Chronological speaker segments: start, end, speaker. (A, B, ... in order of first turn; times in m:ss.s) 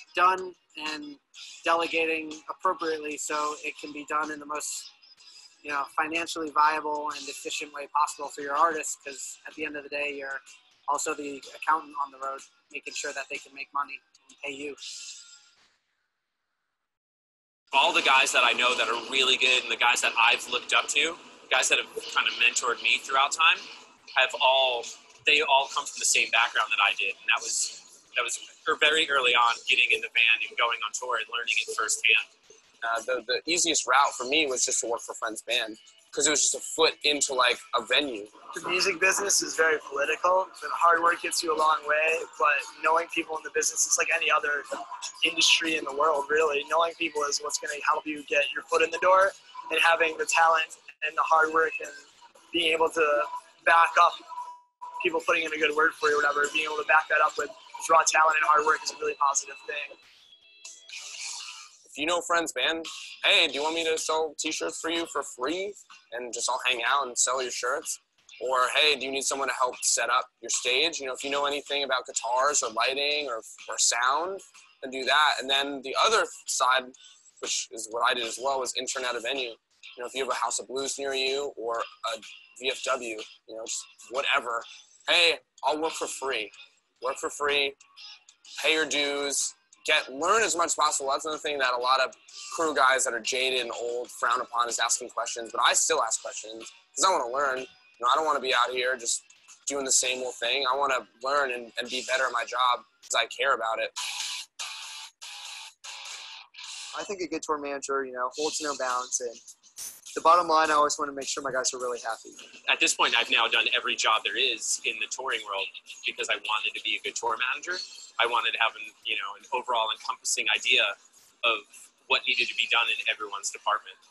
0:00.1-0:04.9 A
0:05.6-0:14.8 A
0:17.7-0:23.6 B
0:24.2-0:32.3 B
0:32.8-0:38.3 C
0:38.5-0:44.7 D
0:45.2-0:52.0 D
0:52.5-0:54.2 D
0:55.0-1:00.0 D
1:01.8-1:27.8 C
1:28.6-1:43.9 C
1:46.9-1:49.4 E
1:50.1-1:52.4 E
1:52.6-2:00.9 B
2:01.4-2:03.9 B